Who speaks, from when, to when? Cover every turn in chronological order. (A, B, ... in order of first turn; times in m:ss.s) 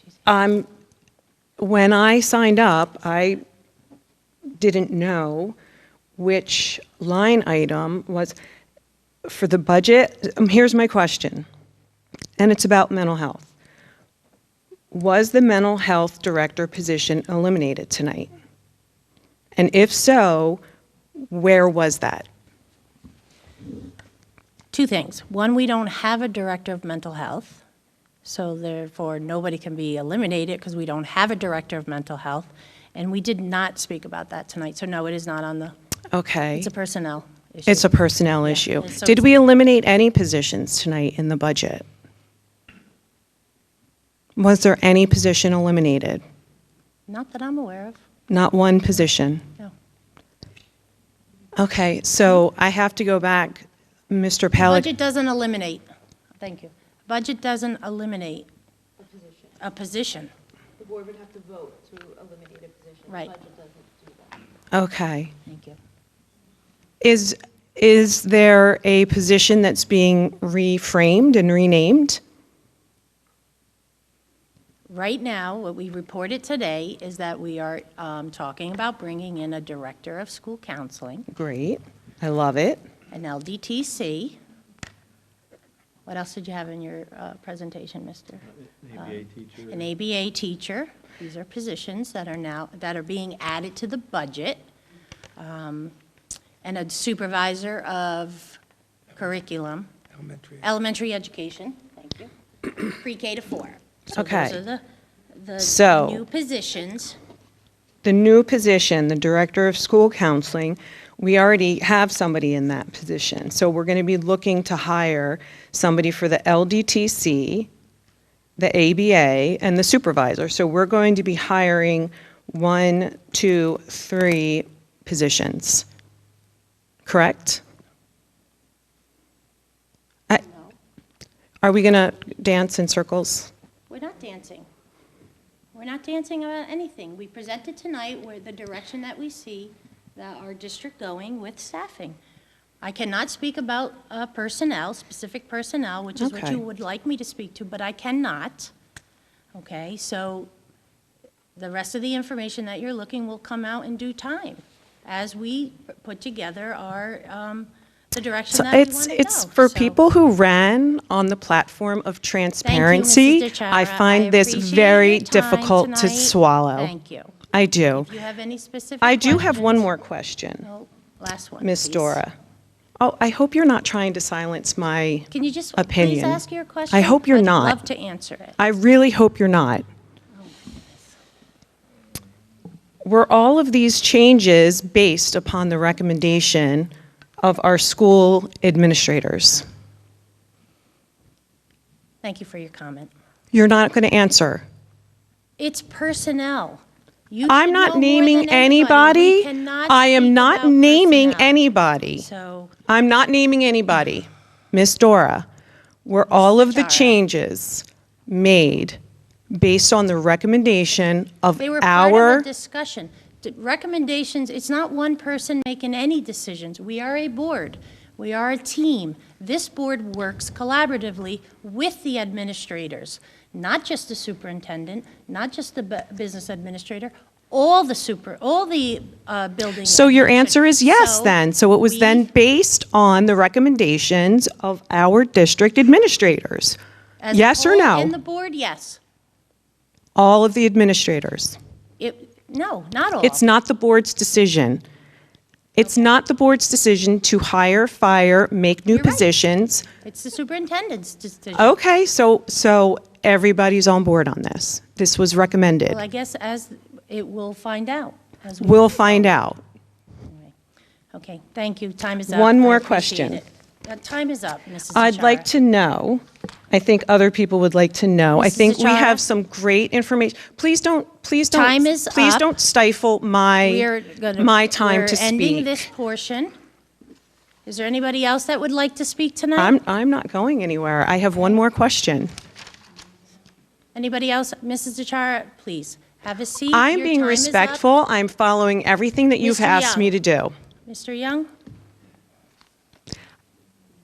0:00.2-0:00.7 A
0:01.6-0:03.4 A
0:04.6-0:05.6 A
0:06.2-0:08.3 A
0:09.2-0:11.4 A
0:12.4-0:13.5 A
0:14.9-0:18.3 A
0:19.6-0:20.6 A
0:21.3-0:22.2 A
0:24.7-0:27.6 B
0:28.2-0:35.7 B
0:36.1-0:36.7 A
0:36.5-0:37.9 B
0:37.7-0:41.8 A
0:38.4-0:39.3 B
0:44.4-0:46.2 A
0:47.1-0:48.0 B
0:48.3-0:49.4 A
0:51.6-0:54.9 A
0:54.6-0:55.8 B
0:56.4-0:58.5 B
0:59.1-0:59.4 C
0:59.6-1:00.3 B
1:00.8-1:04.4 C
1:03.1-1:03.3 B
1:04.7-1:05.3 A
1:05.4-1:05.8 B
1:07.0-1:12.2 A
1:14.9-1:21.3 B
1:21.3-1:22.8 A
1:23.1-1:24.4 B
1:26.0-1:34.6 B
1:35.4-1:35.9 B
1:36.6-1:38.6 B
1:39.2-1:39.9 B
1:40.5-1:44.8 B
1:44.1-1:44.6 A
1:45.3-1:47.2 B
1:45.6-1:46.2 A
1:48.0-1:57.7 A
1:58.6-2:05.8 A
2:07.0-2:07.6 A
2:10.4-2:10.7 B
2:11.6-2:13.5 A
2:13.9-2:14.7 B
2:15.7-2:22.2 B
2:22.8-2:28.7 B
2:26.2-2:26.6 A
2:29.5-2:30.5 B
2:31.6-2:40.0 B
2:38.5-2:46.9 A
2:42.6-2:47.3 B
2:47.5-2:48.1 A
2:47.9-2:49.9 B
2:49.0-2:50.6 A
2:50.6-2:52.2 B
2:51.6-2:52.3 A
2:53.0-2:57.8 A
2:55.3-2:58.6 B
2:58.6-2:59.8 A
3:00.4-3:01.1 B
3:03.0-3:06.9 A
3:07.4-3:09.6 A
3:12.2-3:13.1 B
3:13.5-3:14.6 A
3:15.6-3:21.6 B
3:17.5-3:22.2 A
3:22.2-3:22.7 B
3:22.9-3:25.4 A
3:26.0-3:29.0 A
3:26.3-3:27.2 B
3:29.5-3:32.5 A
3:31.6-3:52.3 B
3:49.8-3:56.8 A
3:57.2-3:59.0 B
3:57.3-3:58.1 A
4:00.2-4:01.6 A
4:02.0-4:03.4 B
4:03.2-4:04.8 A
4:05.7-4:09.8 A
4:05.8-4:06.1 B
4:08.9-4:09.2 B
4:10.0-4:11.8 B
4:11.5-4:16.0 A
4:15.9-4:19.4 B
4:18.6-4:19.6 A
4:21.1-4:25.5 B
4:22.3-4:23.4 A
4:24.9-4:35.8 A
4:28.4-4:29.2 B
4:31.5-4:32.5 B
4:33.6-4:36.5 B
4:37.6-4:39.8 B
4:39.6-4:42.3 A
4:43.9-4:47.8 B
4:46.7-4:50.5 A
4:49.4-4:50.2 B
4:50.8-4:51.5 B